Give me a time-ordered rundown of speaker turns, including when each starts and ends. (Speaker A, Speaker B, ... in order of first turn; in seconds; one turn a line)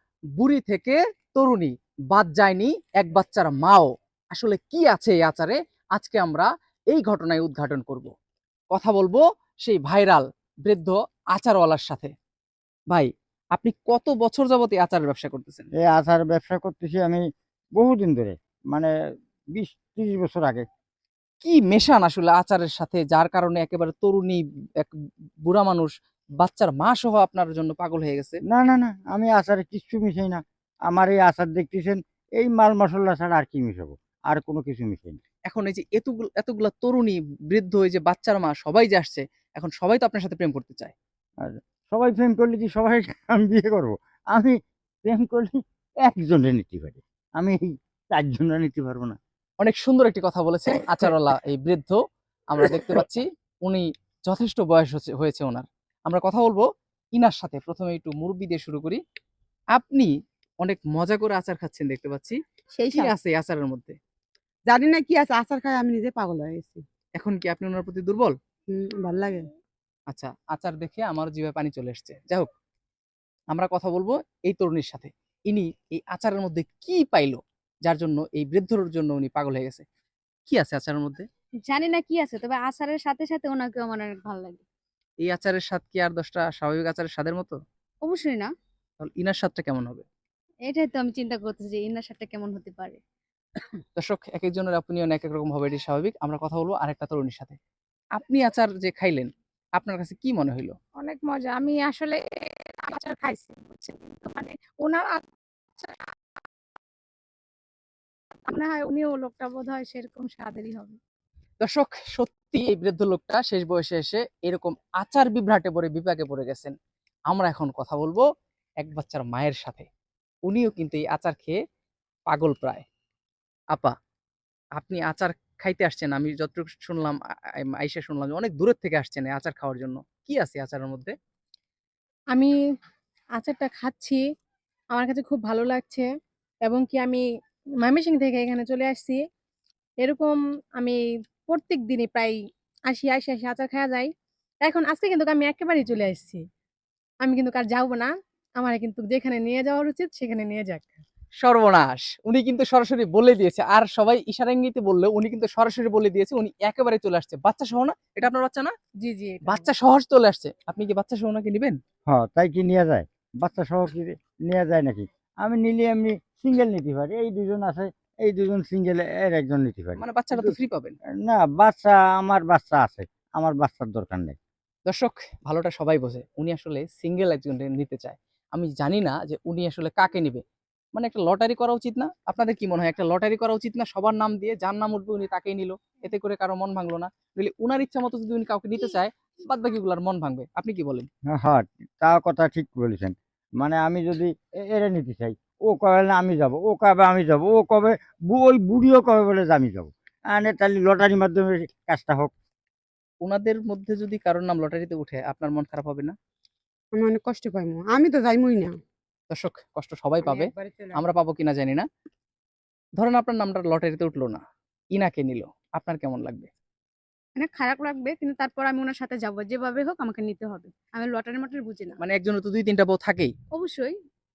Speaker A: 0.4-8.1
Speaker A: 8.7-12.1
Speaker A: 12.9-15.7
Speaker B: 15.8-17.2
Speaker B: 17.8-18.9
Speaker B: 19.5-20.6
Speaker A: 21.4-28.4
Speaker B: 28.5-35.2
Speaker A: 35.5-40.9
Speaker B: 41.4-49.2
Speaker A: 49.6-59.0
Speaker A: 59.7-62.4
Speaker C: 62.7-63.1
Speaker A: 62.9-64.0
Speaker C: 64.7-66.8
Speaker A: 67.2-68.3
Speaker C: 68.7-69.4
Speaker A: 70.1-72.5
Speaker A: 73.5-79.8
Speaker A: 80.5-81.2
Speaker D: 81.7-84.6
Speaker A: 85.2-87.6
Speaker D: 88.0-88.5
Speaker A: 89.0-90.0
Speaker D: 90.7-93.0
Speaker A: 94.0-97.6
Speaker A: 98.2-100.8
Speaker E: 101.0-102.2
Speaker E: 102.8-105.2
Speaker E: 108.5-110.8
Speaker D: 109.3-109.7
Speaker D: 110.3-110.8
Speaker A: 111.6-116.8
Speaker A: 117.3-118.2
Speaker A: 118.8-119.9
Speaker A: 120.5-121.6
Speaker A: 122.3-122.8
Speaker A: 124.8-131.1
Speaker E: 133.4-134.2
Speaker E: 134.9-136.1
Speaker E: 136.7-137.2
Speaker E: 137.8-139.2
Speaker E: 140.0-146.4
Speaker E: 147.2-150.9
Speaker A: 151.4-158.7
Speaker E: 159.0-159.7
Speaker A: 159.4-161.8
Speaker B: 162.1-170.5
Speaker A: 170.0-170.9
Speaker B: 171.2-174.4
Speaker A: 174.9-180.4
Speaker A: 180.9-191.1
Speaker B: 191.3-202.3
Speaker A: 203.2-206.1
Speaker C: 206.9-208.8
Speaker A: 209.3-211.9
Speaker C: 210.3-211.0
Speaker A: 213.0-214.4
Speaker A: 214.9-216.5
Speaker D: 217.3-222.0
Speaker A: 222.0-223.3
Speaker D: 223.5-224.0